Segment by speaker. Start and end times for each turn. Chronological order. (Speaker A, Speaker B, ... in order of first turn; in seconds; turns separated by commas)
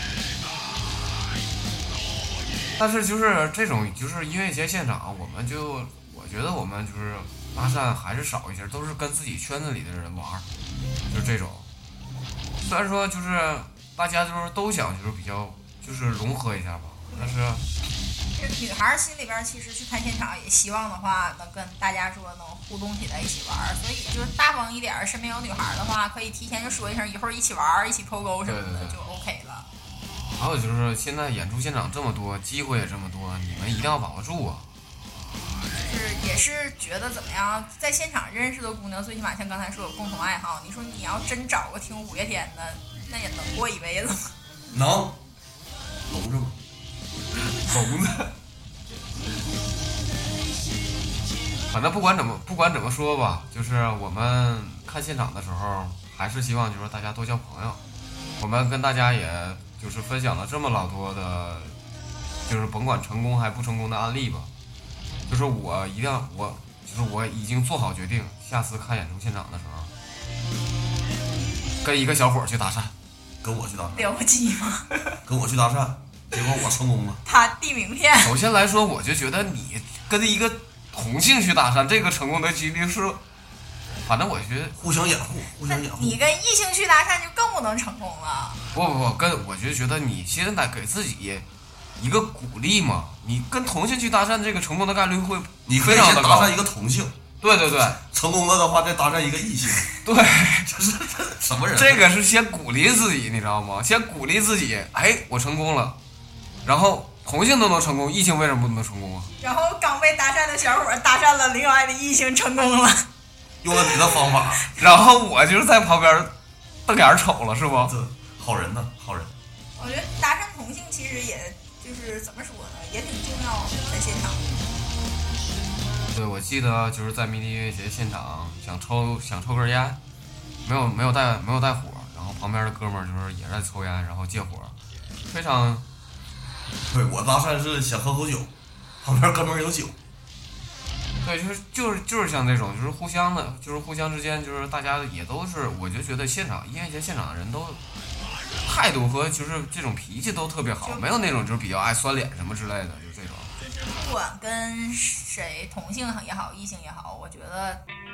Speaker A: 2.8-10.4, Speaker A: 11.1-11.7, Speaker A: 12.6-17.6, Speaker B: 18.3-29.7, Speaker A: 28.4-29.0, Speaker A: 30.3-34.6, Speaker B: 35.7-44.3, Speaker C: 44.7-45.2, Speaker C: 46.1-46.6, Speaker A: 47.6-48.3, Speaker A: 51.7-57.8, Speaker A: 58.4-61.8, Speaker A: 62.5-64.5, Speaker A: 65.3-69.9, Speaker A: 71.8-72.9, Speaker C: 73.4-74.1, Speaker B: 74.0-74.9, Speaker C: 75.2-77.2, Speaker B: 77.3-78.3, Speaker A: 78.2-83.2, Speaker A: 84.0-84.8, Speaker C: 84.8-86.2, Speaker B: 85.7-88.6, Speaker A: 88.7-96.5, Speaker C: 95.7-97.2, Speaker A: 97.4-98.0, Speaker C: 97.8-99.9, Speaker A: 100.0-100.7, Speaker C: 100.7-102.1, Speaker A: 101.7-106.0, Speaker A: 106.7-109.3, Speaker B: 109.4-113.1, Speaker C: 113.6-114.6, Speaker B: 113.8-114.0, Speaker A: 114.8-116.3, Speaker A: 116.9-117.9, Speaker C: 117.8-119.3, Speaker B: 119.8-124.5, Speaker A: 126.1-130.0, Speaker A: 130.7-134.8, Speaker A: 135.3-135.8, Speaker C: 136.9-140.0, Speaker A: 141.2-147.8, Speaker A: 148.6-153.5, Speaker B: 150.8-151.2, Speaker B: 153.6-157.8